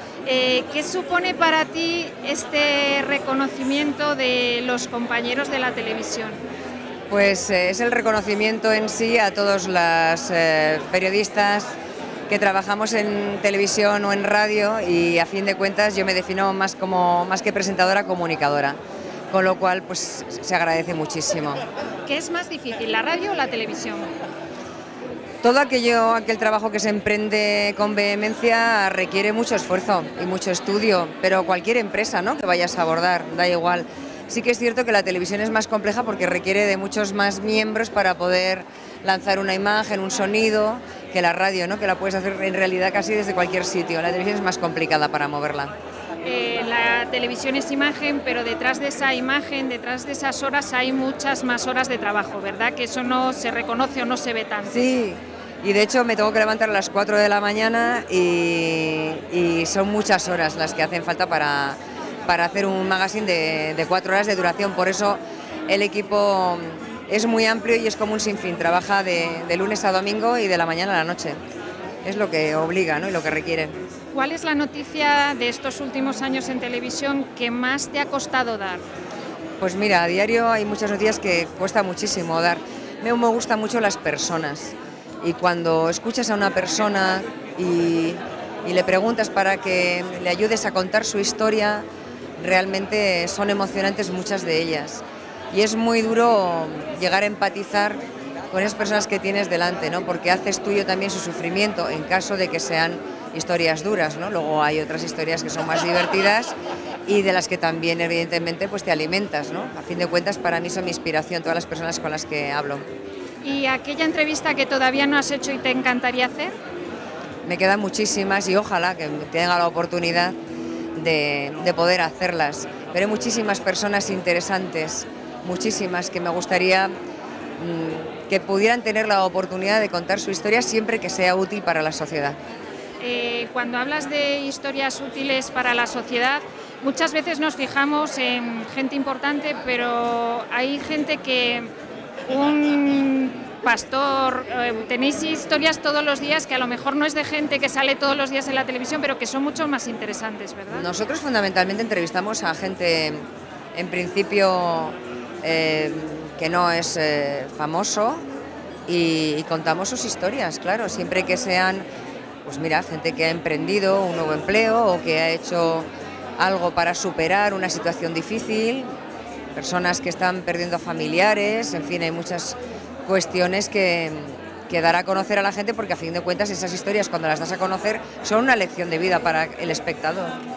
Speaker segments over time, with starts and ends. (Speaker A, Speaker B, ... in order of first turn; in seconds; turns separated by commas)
Speaker A: 0.2-6.4, Speaker B: 7.1-11.7, Speaker B: 12.3-18.8, Speaker B: 19.3-21.6, Speaker A: 22.1-24.1, Speaker B: 25.4-45.7, Speaker A: 46.2-54.8, Speaker B: 54.7-71.4, Speaker B: 72.0-73.7, Speaker A: 74.1-78.8, Speaker B: 79.6-91.8, Speaker B: 92.4-98.0, Speaker B: 98.5-106.5, Speaker B: 107.0-112.8, Speaker A: 113.4-116.5, Speaker B: 117.4-120.3, Speaker B: 120.9-126.9, Speaker B: 127.6-132.4, Speaker A: 133.0-141.7, Speaker A: 142.3-150.8, Speaker B: 150.7-153.2, Speaker B: 153.7-158.2, Speaker B: 158.9-161.8, Speaker B: 162.4-168.9, Speaker B: 169.5-180.4